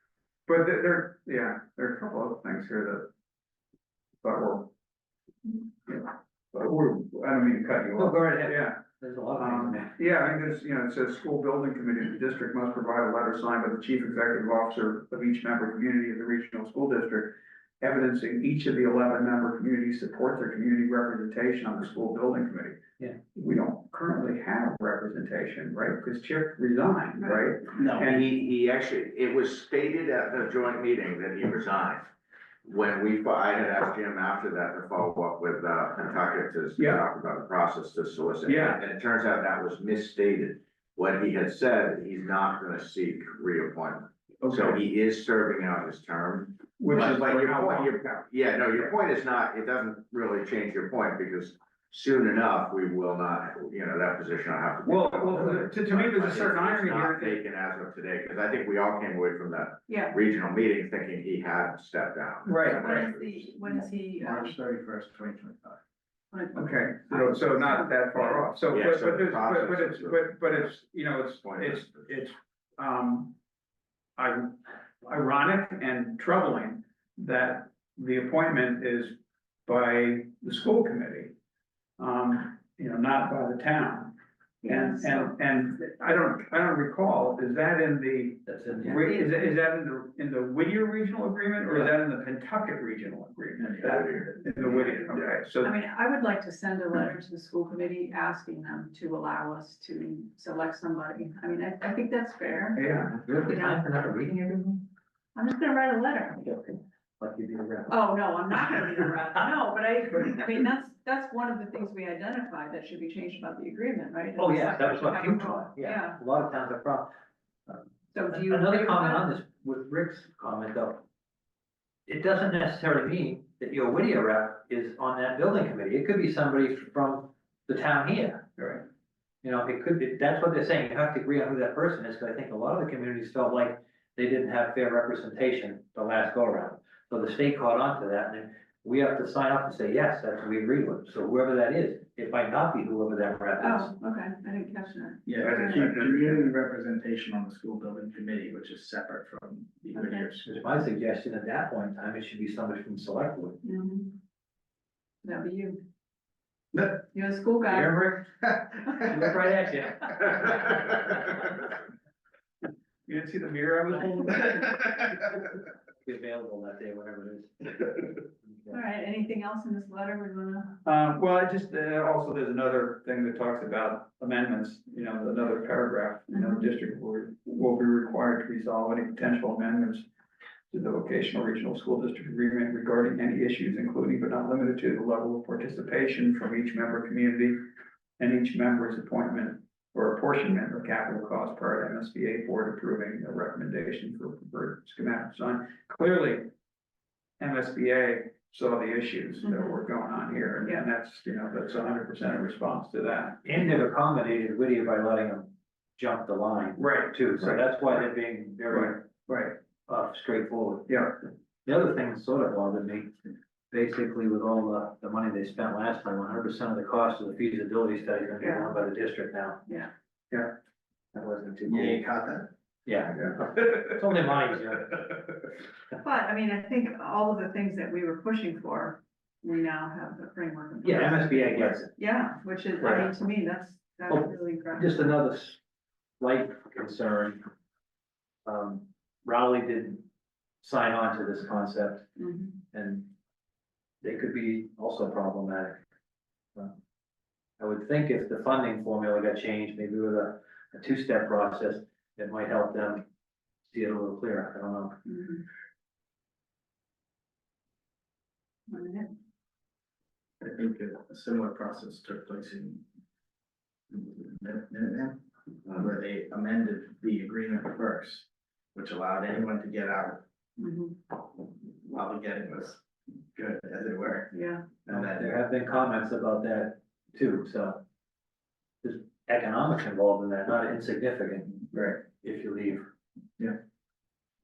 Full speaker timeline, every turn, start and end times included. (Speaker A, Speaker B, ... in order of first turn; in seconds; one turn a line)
Speaker A: 0.5-3.1
Speaker A: 4.2-4.7
Speaker A: 5.5-8.8
Speaker B: 8.0-9.9
Speaker A: 9.4-22.8
Speaker A: 23.3-28.3
Speaker C: 27.8-28.1
Speaker D: 28.0-32.1
Speaker D: 32.6-63.7
Speaker A: 36.8-37.0
Speaker A: 38.5-38.8
Speaker A: 44.4-44.8
Speaker A: 46.8-48.0
Speaker A: 54.9-57.4
Speaker E: 59.9-60.2
Speaker A: 62.5-62.9
Speaker E: 62.6-64.5
Speaker C: 64.2-65.8
Speaker E: 66.3-68.2
Speaker A: 66.5-73.3
Speaker D: 68.7-70.7
Speaker D: 71.4-72.1
Speaker A: 74.2-81.3
Speaker A: 82.0-84.2
Speaker E: 84.6-85.3
Speaker A: 84.7-95.7
Speaker B: 88.5-89.2
Speaker D: 93.8-95.4
Speaker E: 95.6-103.9
Speaker A: 102.8-103.1
Speaker B: 102.9-104.9
Speaker E: 105.3-106.6
Speaker B: 106.7-108.0
Speaker E: 107.9-116.2
Speaker B: 114.4-117.1
Speaker B: 117.7-121.0
Speaker E: 118.1-119.3
Speaker B: 122.1-128.4
Speaker A: 128.6-128.8
Speaker B: 129.4-143.9
Speaker E: 143.6-145.8
Speaker C: 145.3-150.5
Speaker A: 145.4-146.5
Speaker E: 149.9-150.3
Speaker B: 150.4-153.6
Speaker E: 153.6-154.2
Speaker E: 155.2-155.8
Speaker C: 156.7-157.0
Speaker E: 157.1-158.0
Speaker B: 157.7-158.3
Speaker C: 158.5-159.1
Speaker B: 159.1-161.4
Speaker A: 163.1-164.9
Speaker B: 166.0-168.8
Speaker E: 168.7-170.8
Speaker A: 170.8-180.1
Speaker E: 176.3-176.7
Speaker A: 180.7-187.6
Speaker A: 188.2-196.5
Speaker A: 197.4-203.7
Speaker E: 199.4-199.8
Speaker B: 203.4-211.1
Speaker A: 206.8-207.6
Speaker A: 208.7-209.5
Speaker A: 210.9-211.2
Speaker B: 211.7-213.1
Speaker B: 213.7-219.6
Speaker E: 218.4-218.8
Speaker B: 221.1-222.0
Speaker C: 221.7-222.5
Speaker B: 222.9-225.1
Speaker E: 226.0-235.1
Speaker B: 230.8-231.9
Speaker B: 234.1-235.6
Speaker B: 236.2-237.5
Speaker B: 238.4-240.1
Speaker B: 240.6-242.1
Speaker E: 242.2-242.6
Speaker B: 242.7-243.1
Speaker B: 244.0-245.8
Speaker B: 247.6-253.1
Speaker B: 253.6-254.9
Speaker E: 255.1-255.4
Speaker E: 258.7-259.1
Speaker C: 260.4-262.8
Speaker C: 263.9-265.2
Speaker C: 265.8-270.2
Speaker E: 270.6-271.0
Speaker C: 271.8-272.8
Speaker C: 273.3-274.3
Speaker E: 274.3-274.8
Speaker C: 274.9-275.3
Speaker B: 274.9-277.8
Speaker B: 278.8-281.5
Speaker C: 281.7-282.0
Speaker B: 282.1-282.9